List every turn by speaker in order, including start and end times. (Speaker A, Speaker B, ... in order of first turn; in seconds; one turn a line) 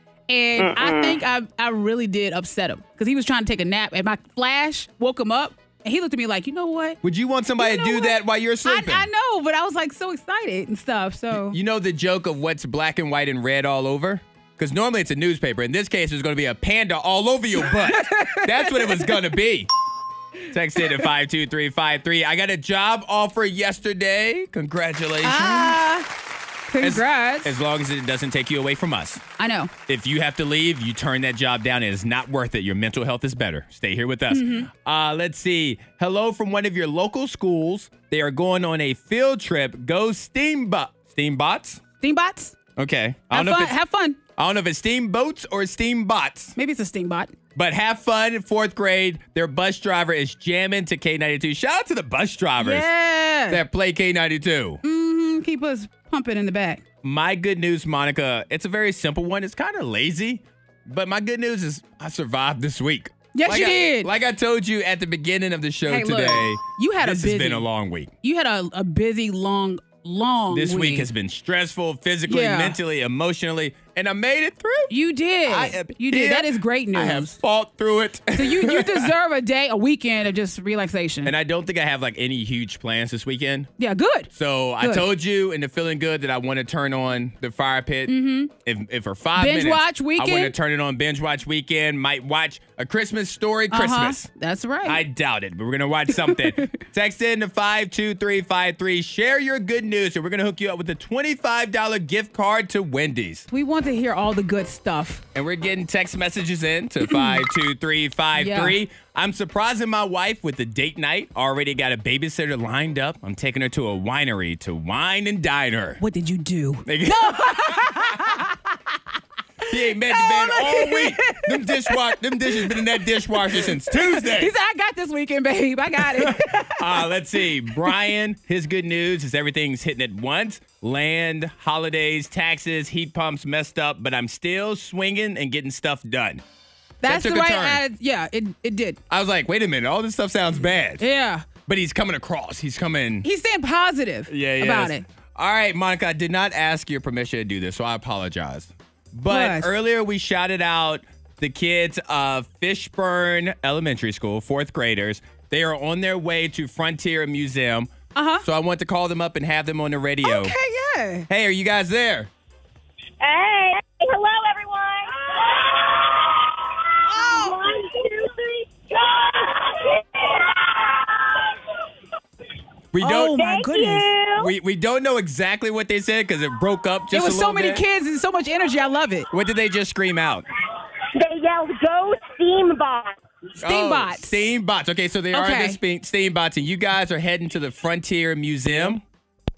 Speaker A: 0.3-7.0
Speaker B: 0.7-1.2
Speaker B: 7.0-9.1
Speaker A: 7.6-11.6
Speaker B: 11.3-19.7
Speaker A: 17.6-19.2
Speaker B: 20.5-25.8
Speaker A: 25.2-26.1
Speaker A: 26.7-27.6
Speaker B: 26.8-29.2
Speaker A: 29.4-29.7
Speaker B: 29.9-41.8
Speaker A: 34.3-34.7
Speaker A: 42.0-42.6
Speaker B: 42.8-43.8
Speaker A: 43.3-44.2
Speaker B: 44.4-46.5
Speaker A: 46.6-47.3
Speaker B: 47.5-52.9
Speaker A: 52.6-53.6
Speaker B: 53.5-54.8
Speaker A: 54.8-56.8
Speaker B: 57.0-68.1
Speaker A: 63.3-64.1
Speaker A: 65.9-67.7
Speaker A: 68.2-71.1
Speaker B: 70.5-74.9
Speaker A: 72.3-72.8
Speaker A: 74.9-77.4
Speaker B: 75.5-79.1
Speaker A: 78.3-81.3
Speaker B: 81.2-83.7
Speaker A: 83.8-85.1
Speaker B: 84.3-94.3
Speaker A: 88.1-88.5
Speaker A: 89.4-90.5
Speaker A: 93.7-95.0
Speaker B: 94.8-103.5
Speaker A: 96.3-96.8
Speaker A: 103.5-105.2
Speaker B: 105.3-116.0
Speaker A: 107.0-107.4
Speaker A: 108.3-108.8
Speaker A: 116.0-118.6
Speaker B: 116.8-118.2
Speaker B: 119.7-124.5
Speaker A: 120.1-127.1
Speaker B: 126.0-136.4
Speaker A: 137.0-139.0
Speaker B: 137.1-137.8
Speaker B: 139.1-141.0
Speaker A: 141.0-141.5
Speaker B: 141.7-143.3
Speaker A: 143.2-145.1
Speaker B: 144.3-157.9
Speaker A: 149.3-149.7
Speaker A: 158.2-158.5
Speaker B: 158.4-160.6
Speaker A: 160.2-161.3
Speaker B: 161.3-162.3
Speaker C: 163.2-171.5
Speaker A: 167.0-167.7
Speaker B: 172.9-173.4
Speaker A: 173.0-174.1
Speaker C: 173.3-174.5
Speaker B: 174.4-177.8
Speaker A: 177.1-179.3
Speaker B: 179.3-180.5
Speaker C: 181.2-183.2
Speaker B: 183.6-189.0
Speaker A: 183.6-184.4
Speaker A: 185.3-185.8